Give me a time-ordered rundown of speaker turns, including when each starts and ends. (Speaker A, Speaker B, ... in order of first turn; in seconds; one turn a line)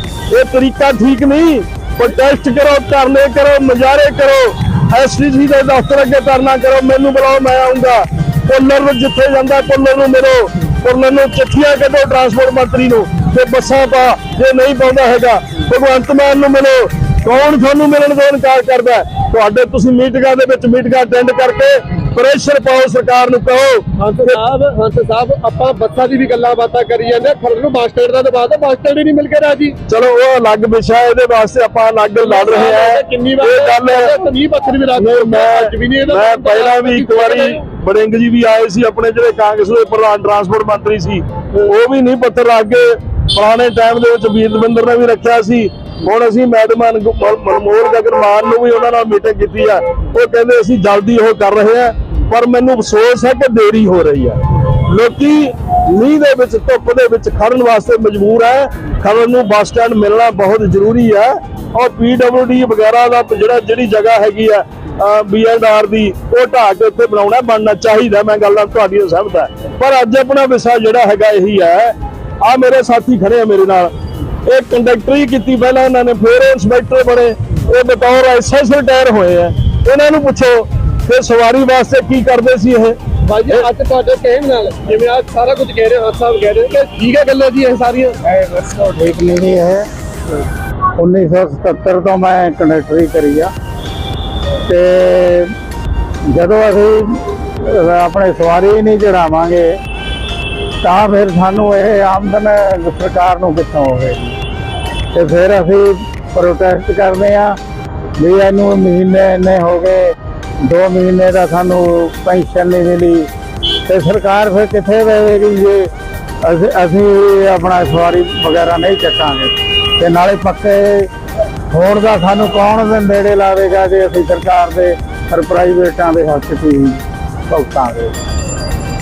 Speaker A: 0.3-24.4
Speaker B: 24.0-29.8
Speaker A: 29.9-34.1
Speaker B: 32.2-37.6
Speaker A: 35.0-73.9
Speaker A: 74.5-83.0
Speaker B: 83.2-88.2
Speaker C: 88.2-89.8
Speaker C: 91.0-93.5
Speaker C: 94.7-95.5
Speaker C: 96.3-99.8
Speaker C: 100.8-104.3
Speaker C: 105.1-107.6
Speaker C: 108.2-113.3
Speaker C: 113.8-115.9
Speaker C: 116.4-121.1
Speaker C: 121.7-128.1